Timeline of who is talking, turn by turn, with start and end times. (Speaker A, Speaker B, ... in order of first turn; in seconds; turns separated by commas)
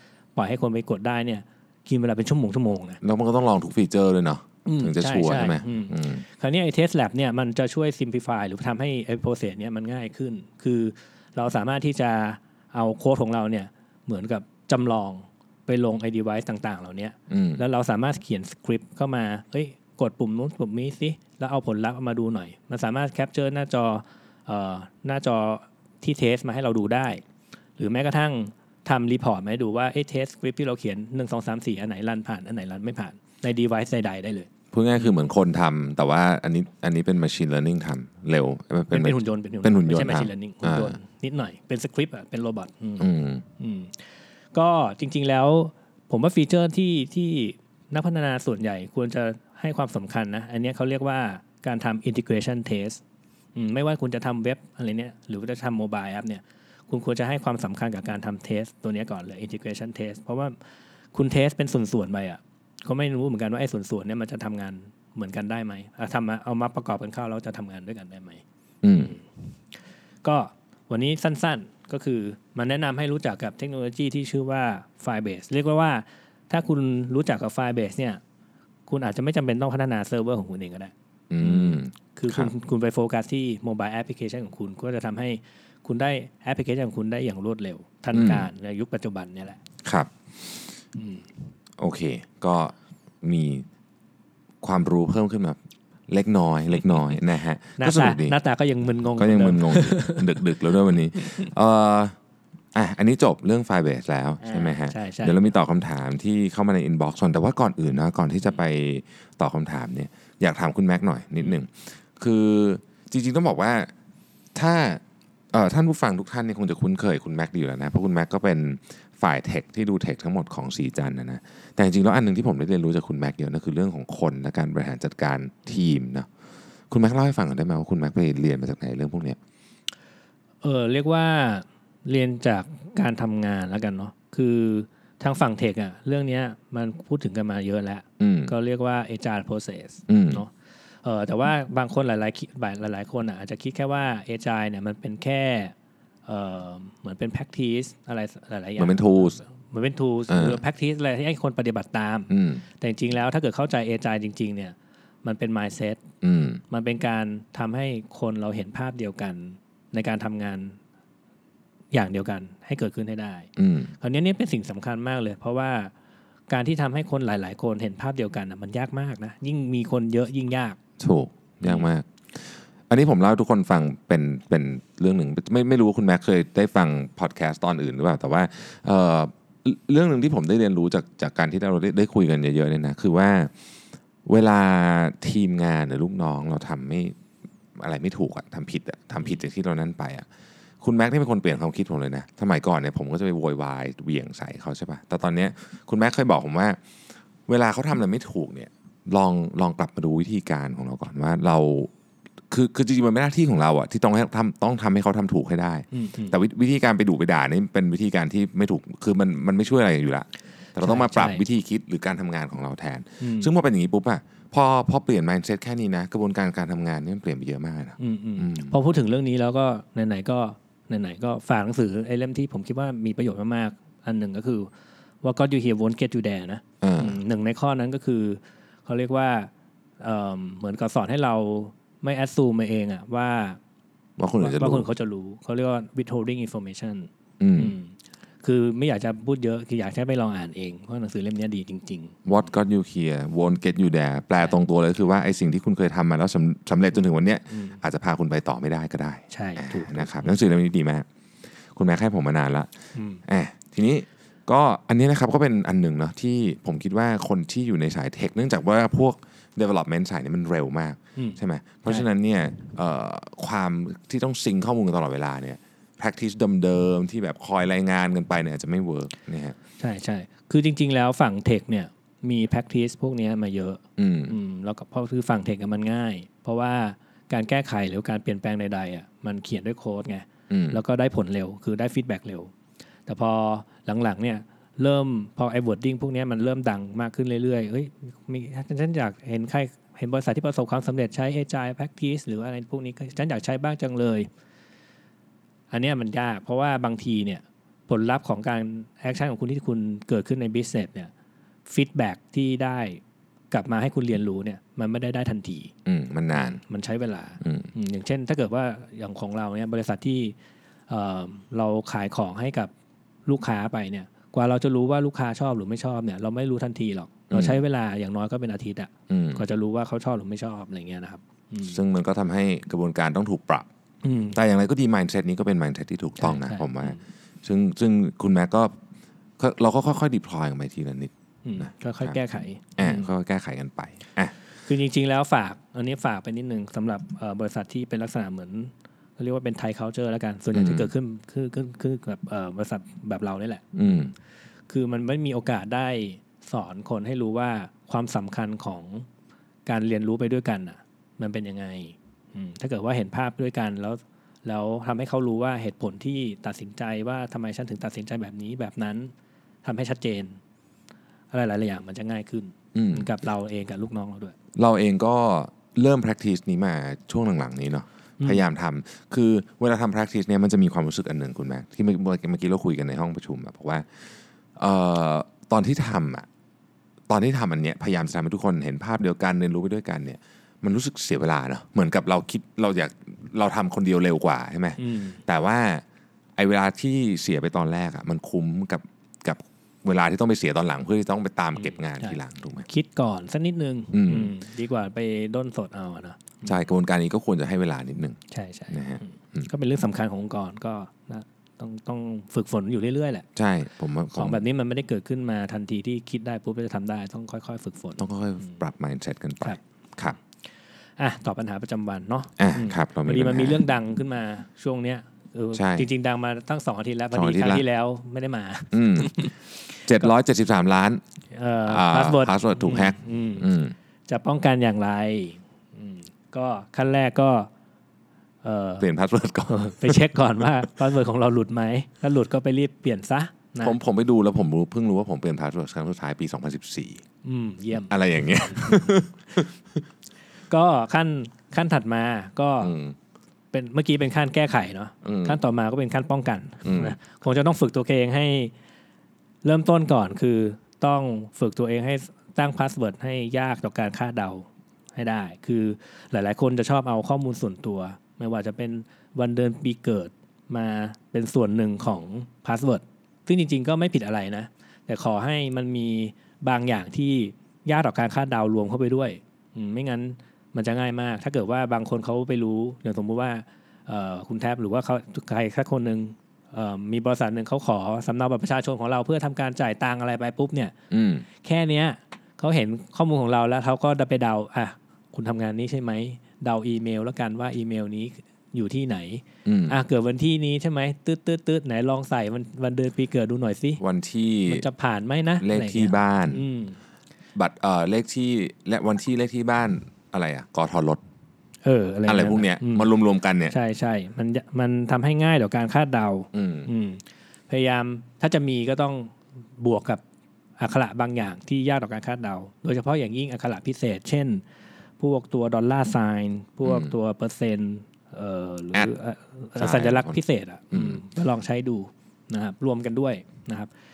Speaker A: 0.4-3.0, Speaker B: 3.0-6.2, Speaker A: 4.7-27.2, Speaker B: 17.3-17.6, Speaker A: 27.8-35.1, Speaker B: 34.7-41.0, Speaker A: 38.9-53.0, Speaker B: 43.0-43.4, Speaker A: 53.5-60.6, Speaker A: 61.1-69.3, Speaker B: 68.8-69.2, Speaker A: 70.2-78.2, Speaker A: 78.9-89.6, Speaker B: 81.3-82.5, Speaker B: 88.1-88.5, Speaker B: 89.8-90.7, Speaker A: 91.0-91.3, Speaker B: 91.8-93.7, Speaker B: 94.6-98.4, Speaker A: 97.8-100.4, Speaker B: 99.1-102.2, Speaker A: 101.2-101.5, Speaker B: 102.8-113.9, Speaker A: 104.4-105.5, Speaker B: 114.5-126.3, Speaker B: 126.9-129.4, Speaker A: 130.6-140.5, Speaker B: 138.2-138.5, Speaker B: 140.1-140.4, Speaker A: 141.0-145.7, Speaker A: 146.3-156.0, Speaker B: 148.8-149.4, Speaker B: 150.3-150.6, Speaker B: 152.3-152.6, Speaker B: 156.2-156.6, Speaker A: 156.7-160.8, Speaker A: 161.9-163.5, Speaker B: 163.6-163.9, Speaker A: 164.0-165.9, Speaker A: 166.5-170.8, Speaker B: 171.0-183.5, Speaker B: 184.3-187.2, Speaker B: 187.8-190.3, Speaker B: 190.8-196.8, Speaker B: 197.5-201.9, Speaker B: 202.5-218.8, Speaker A: 205.9-206.4, Speaker A: 210.8-211.4, Speaker A: 213.2-213.5, Speaker A: 218.0-224.7, Speaker A: 225.2-233.6, Speaker B: 226.8-227.2, Speaker B: 234.2-234.9, Speaker A: 234.4-242.2, Speaker B: 237.4-237.8, Speaker B: 242.2-251.1, Speaker A: 247.5-247.8, Speaker A: 249.3-250.3, Speaker B: 251.7-252.7, Speaker A: 252.9-253.2, Speaker B: 253.2-269.6, Speaker A: 261.2-262.1, Speaker A: 269.8-282.5, Speaker B: 274.0-274.4, Speaker B: 280.5-280.8, Speaker A: 283.1-294.3, Speaker A: 295.7-301.1, Speaker A: 301.7-305.7, Speaker B: 305.9-306.6, Speaker A: 306.3-310.4, Speaker B: 307.4-307.7, Speaker A: 310.9-312.7, Speaker A: 313.3-321.8, Speaker B: 317.3-317.6, Speaker B: 319.1-319.4, Speaker B: 321.7-323.7, Speaker A: 324.0-324.4, Speaker B: 324.3-328.8, Speaker A: 326.2-327.0, Speaker B: 329.4-332.2, Speaker A: 331.4-333.1, Speaker B: 332.8-334.3, Speaker A: 334.6-344.0, Speaker B: 340.5-340.9, Speaker B: 343.7-344.1, Speaker A: 344.7-349.1, Speaker A: 349.7-359.1, Speaker A: 359.6-360.4, Speaker A: 361.3-364.4, Speaker B: 362.7-363.1, Speaker B: 364.6-376.3, Speaker B: 377.1-385.8, Speaker A: 384.8-385.2, Speaker B: 386.4-392.7, Speaker A: 391.6-396.6, Speaker B: 393.9-394.3, Speaker B: 396.4-398.2, Speaker A: 398.3-403.3, Speaker B: 398.7-399.5, Speaker B: 403.4-404.4, Speaker A: 404.1-408.6, Speaker B: 408.0-410.2, Speaker A: 411.0-420.1, Speaker B: 412.4-413.6, Speaker B: 415.6-415.9, Speaker B: 417.1-417.6, Speaker B: 418.7-419.3, Speaker B: 419.8-421.0, Speaker A: 421.3-423.5, Speaker B: 421.7-423.7, Speaker A: 424.1-427.5, Speaker A: 428.4-428.9, Speaker B: 428.8-430.1, Speaker A: 429.5-433.8, Speaker B: 433.6-437.0, Speaker A: 437.2-438.9, Speaker B: 437.9-439.8, Speaker A: 440.5-442.8, Speaker B: 442.6-442.9, Speaker A: 443.5-448.5, Speaker B: 445.0-445.4, Speaker B: 446.6-447.0, Speaker A: 449.4-480.7, Speaker B: 480.9-481.2, Speaker A: 481.4-493.8, Speaker B: 489.4-489.8, Speaker B: 493.8-494.7, Speaker A: 494.5-496.8, Speaker B: 495.4-496.4, Speaker B: 497.4-501.0, Speaker A: 501.6-502.9, Speaker B: 502.1-503.5, Speaker A: 503.5-510.0, Speaker B: 506.3-506.7, Speaker A: 510.6-514.4, Speaker A: 515.0-523.7, Speaker B: 516.6-516.9, Speaker B: 519.6-520.2, Speaker B: 520.7-521.0